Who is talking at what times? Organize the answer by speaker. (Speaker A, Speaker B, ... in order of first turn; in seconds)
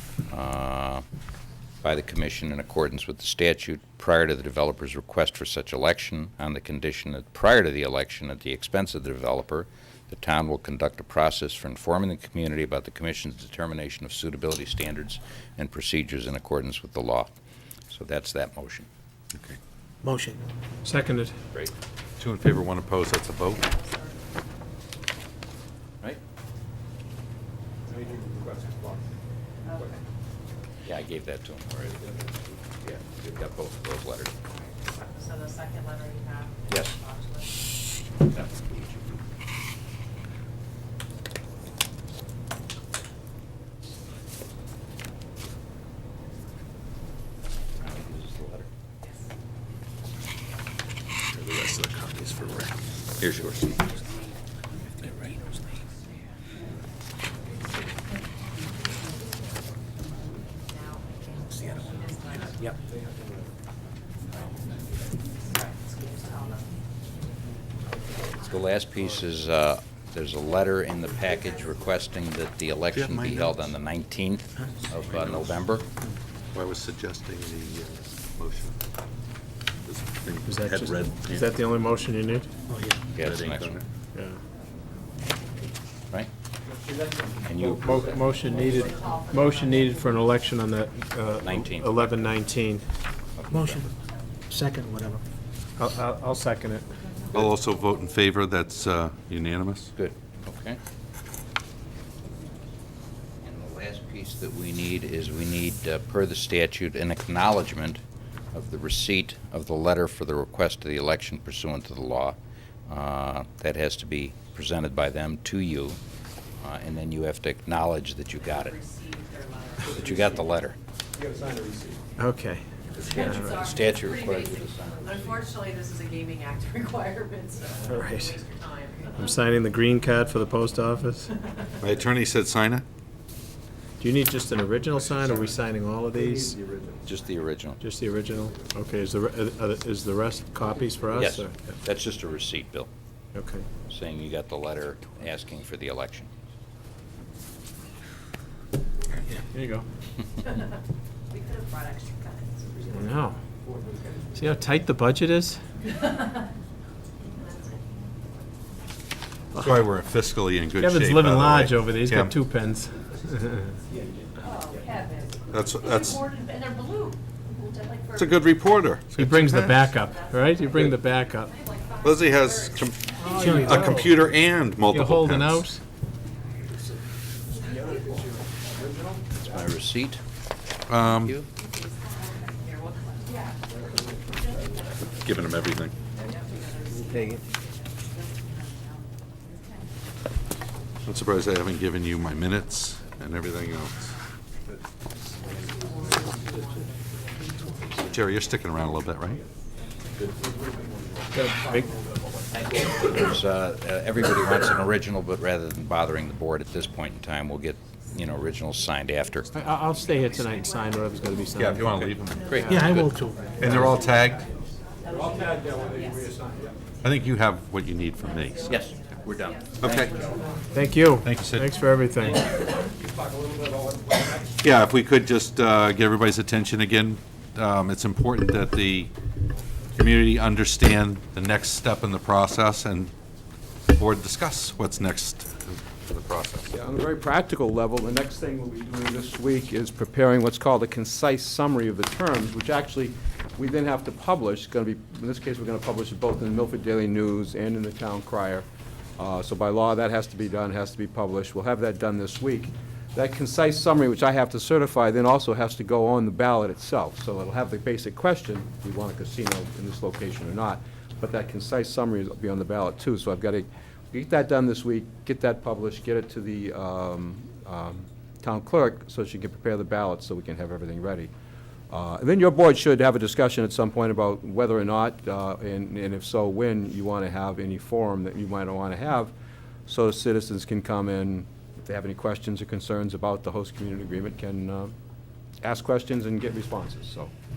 Speaker A: 0.3-1.0, 1.8-17.3, 17.9-18.9, 30.9-32.0, 32.8-34.3, 36.7-36.9, 38.3-39.2, 47.8-48.7, 53.2-53.9, 68.3-75.8, 83.1-83.7, 87.5-88.1, 91.4-92.3, 93.3-93.9, 99.9-100.8, 103.4-108.0, 108.5-116.0, 116.6-118.8, 119.8-120.8, 123.0-125.3, 137.1-137.8, 141.1-142.9, 143.9-146.3, 179.5-180.2, 181.0-181.5, 202.5-209.5, 212.3-213.2, 213.7-214.0, 218.6-220.0
Speaker B: 20.0-20.4, 82.7-83.0, 93.5-93.9, 94.5-95.2, 173.2-174.0, 187.1-187.4, 212.7-213.7
Speaker C: 20.8-21.4, 80.5-82.5, 84.1-84.4, 87.8-92.8, 95.8-96.9, 122.2-122.6, 123.2-123.6, 127.9-128.4, 129.2-131.3, 134.0-136.5, 137.8-141.7, 143.3-143.7, 149.5-149.8, 152.9-153.4, 154.4-155.6, 160.8-163.7, 169.2-171.6, 173.2-174.1, 174.9-175.8, 209.5-212.0, 220.7-222.4
Speaker D: 22.2-23.7, 51.3-52.7, 72.9-73.7, 75.1-75.5, 76.5-78.8, 79.8-81.6, 83.2-83.8, 97.3-99.9, 131.8-132.8, 159.6-162.3, 165.5-166.3, 168.1-169.9, 172.0-175.7, 180.9-181.3, 185.2-185.9, 191.1-194.1, 198.0-199.4, 211.6-212.6, 213.6-214.4, 217.0-218.8, 219.8-220.3, 221.2-221.8, 224.6-229.1, 229.9-233.1, 233.9-236.7
Speaker E: 23.5-24.3, 29.6-30.0, 34.5-37.7, 60.7-62.7, 65.5-66.7, 88.4-90.3, 118.5-120.3, 123.0-129.2, 150.4-150.7, 151.3-153.0, 157.3-158.1, 164.4-168.1, 170.3-173.9, 182.0-183.6, 184.7-189.0, 195.7-197.6, 211.0-211.8, 218.5-220.8
Speaker F: 27.9-29.0, 32.0-32.3, 63.0-63.3, 86.7-89.2, 120.0-120.4, 121.1-122.0, 135.0-135.6, 136.1-137.1, 138.3-138.7, 141.0-141.3, 153.6-154.5, 163.9-165.0, 177.6-179.6, 195.3-196.5, 200.2-202.9, 213.7-214.2, 215.0-216.8, 222.3-224.6, 236.7-248.7, 249.2-271.3, 271.9-279.3, 279.9-284.9, 285.6-287.3